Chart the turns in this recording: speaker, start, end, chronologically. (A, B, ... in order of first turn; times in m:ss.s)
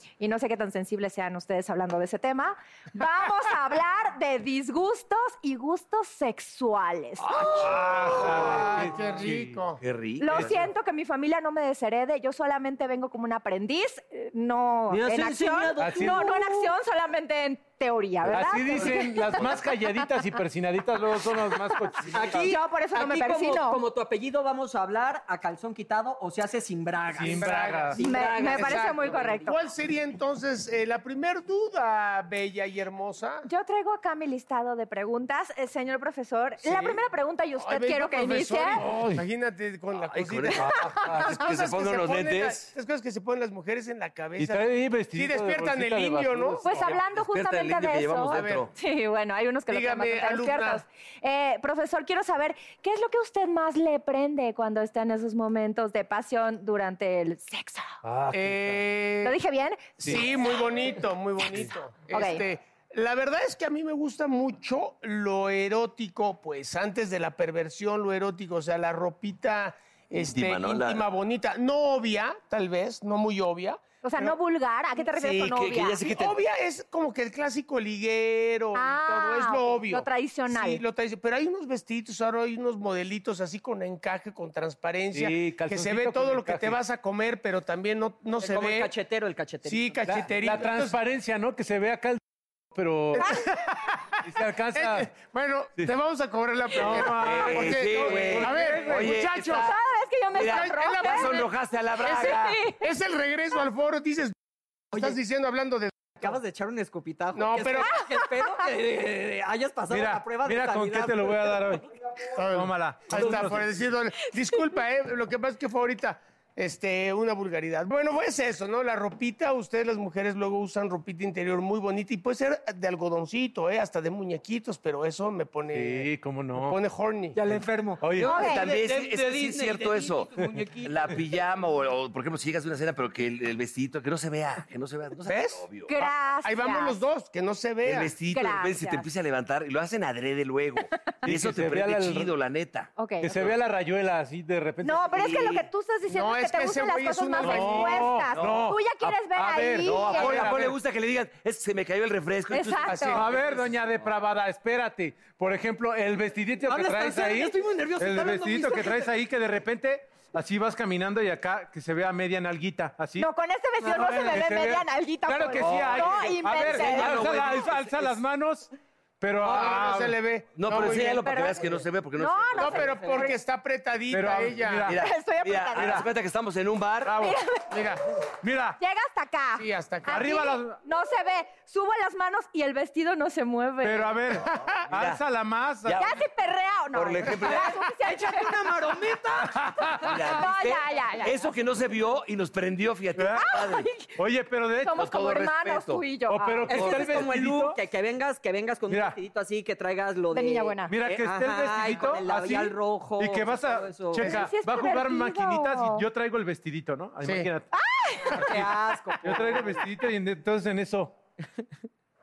0:00.2-0:07.4 A
0:07.3-0:08.8 B
0:07.6-0:09.6 C
0:07.6-0:09.8 D
0:09.8-0:10.7 B
0:10.2-0:19.5 A
0:14.9-0:16.7 E
0:15.8-0:16.3 C
0:18.3-0:22.5 C
0:22.1-0:29.1 E
0:22.4-0:23.8 A
0:27.2-0:28.2 C
0:27.2-0:33.4 D
0:28.0-0:29.6 A
0:33.4-0:38.8 A
0:36.6-0:37.0 D
0:37.6-0:46.7 D
0:38.8-0:39.2 C
0:40.0-0:42.7 B
0:40.9-0:41.2 C
0:44.4-0:46.6 C
0:46.6-0:58.0 A
0:46.7-0:48.7 B
0:48.3-0:48.6 D
0:49.7-0:50.8 D
0:58.0-0:58.8 C
0:58.3-0:59.4 D
0:59.2-0:59.8 A
1:00.0-1:14.3 D
1:02.1-1:02.4 A
1:10.3-1:11.1 B
1:14.0-1:16.1 A
1:15.1-1:16.4 B
1:16.1-1:28.9 D
1:18.7-1:20.8 A
1:25.1-1:26.8 C
1:28.4-1:29.9 E
1:29.6-1:31.0 D
1:30.0-1:32.2 C
1:32.7-1:35.1 C
1:33.1-1:33.6 D
1:34.8-1:39.7 D
1:36.7-1:39.1 C
1:37.0-1:39.7 B
1:39.4-1:41.4 A
1:40.3-1:41.5 D
1:40.4-1:42.6 B
1:42.0-1:44.3 D
1:42.2-1:42.8 A
1:44.9-1:46.3 D
1:46.2-1:51.6 E
1:47.3-1:47.9 D
1:49.9-1:51.8 C
1:52.3-2:07.4 D
1:52.5-1:53.6 C
1:53.1-1:53.5 E
2:05.7-2:06.8 C
2:07.3-2:10.9 E
2:08.0-2:08.7 C
2:08.2-2:08.6 A
2:08.2-2:15.9 B
2:15.2-2:15.6 D
2:15.9-2:17.0 A
2:16.4-2:18.1 D
2:17.8-2:23.6 B
2:18.3-2:19.0 A
2:21.2-2:22.3 C
2:23.0-2:23.3 A
2:23.2-2:25.3 C
2:24.8-2:30.5 A
2:25.1-2:25.7 B
2:26.1-2:28.2 D
2:27.4-2:30.7 C
2:28.2-2:29.2 B
2:29.8-2:33.6 B
2:32.5-2:33.2 A
2:32.9-2:33.6 D
2:33.1-2:43.3 C
2:36.7-2:39.0 E
2:43.2-2:47.2 A
2:43.8-2:50.2 C
2:45.6-2:48.2 B
2:49.4-2:51.8 D
2:50.5-2:53.2 B
2:51.1-2:53.4 A
2:52.6-2:54.9 D
2:52.8-2:53.3 E
2:54.1-2:55.0 C
2:54.8-2:57.2 B
2:54.9-2:56.1 A
2:55.8-2:56.0 C
2:57.0-2:57.4 C
2:57.2-2:57.6 A
2:57.7-2:58.2 D
2:58.4-2:58.8 C
2:58.8-3:04.2 A
2:59.6-3:00.4 D
3:00.1-3:00.8 C
3:03.8-3:06.0 C
3:04.9-3:05.2 B
3:05.8-3:06.1 B
3:06.0-3:08.5 A
3:06.9-3:07.8 B
3:07.4-3:09.6 E
3:09.4-3:10.3 C
3:10.0-3:13.9 B
3:10.3-3:11.4 A
3:13.2-3:13.5 C
3:13.4-3:14.1 A
3:14.1-3:15.0 C
3:14.8-3:16.8 A
3:15.0-3:16.1 B
3:16.3-3:17.8 C
3:16.7-3:24.3 E
3:16.7-3:17.3 B
3:18.9-3:19.2 C
3:20.3-3:20.9 A
3:20.9-3:27.7 C
3:24.2-3:24.5 D
3:24.2-3:26.0 A
3:27.2-3:27.5 D
3:27.7-3:28.6 A
3:28.3-3:31.1 C
3:28.4-3:29.8 E